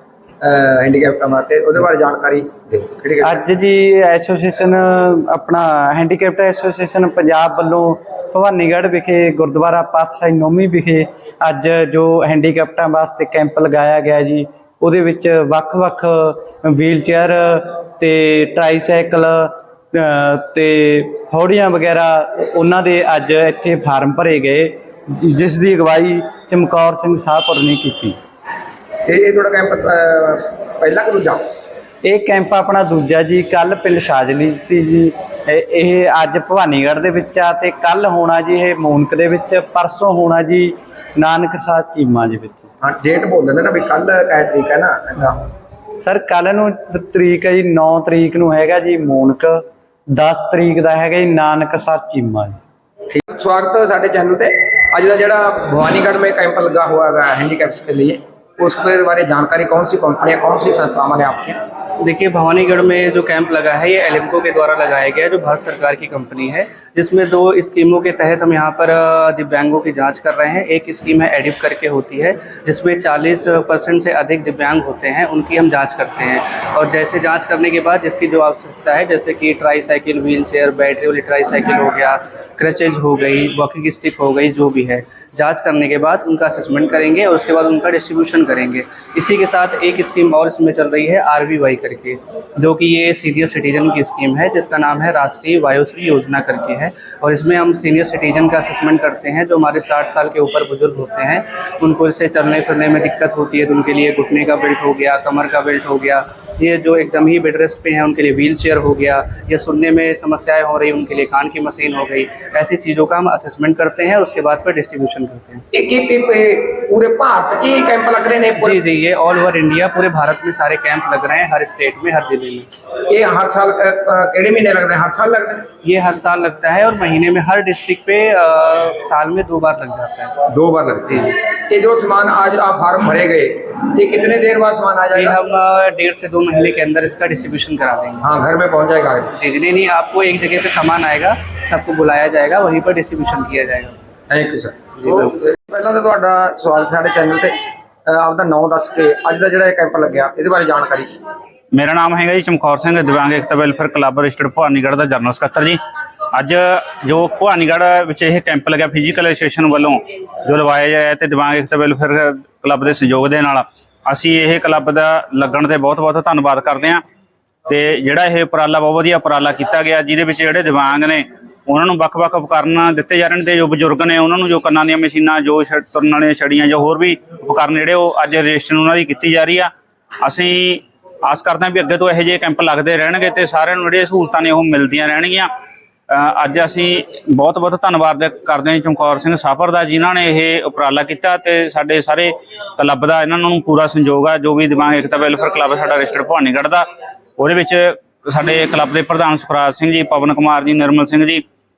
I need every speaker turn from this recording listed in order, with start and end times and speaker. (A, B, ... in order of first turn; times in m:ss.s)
0:00.4-0:03.4 A
0:03.2-0:28.2 B
0:29.0-0:31.4 A
0:32.0-0:42.7 B
0:42.8-0:45.5 A
0:46.0-0:52.6 B
0:53.1-1:01.6 A
1:02.0-1:55.6 C
1:55.7-1:58.8 A
1:58.6-2:02.7 C
2:03.1-2:05.7 A
2:05.8-2:10.4 C
2:10.4-2:15.4 A
2:15.1-2:18.2 C
2:18.2-2:19.3 A
2:19.3-2:24.0 C
2:24.3-2:31.2 A
2:31.7-2:35.8 D
2:36.3-2:47.0 D
2:47.7-2:59.7 D
3:00.2-3:05.5 D
3:06.1-3:16.8 D
3:17.4-3:21.4 D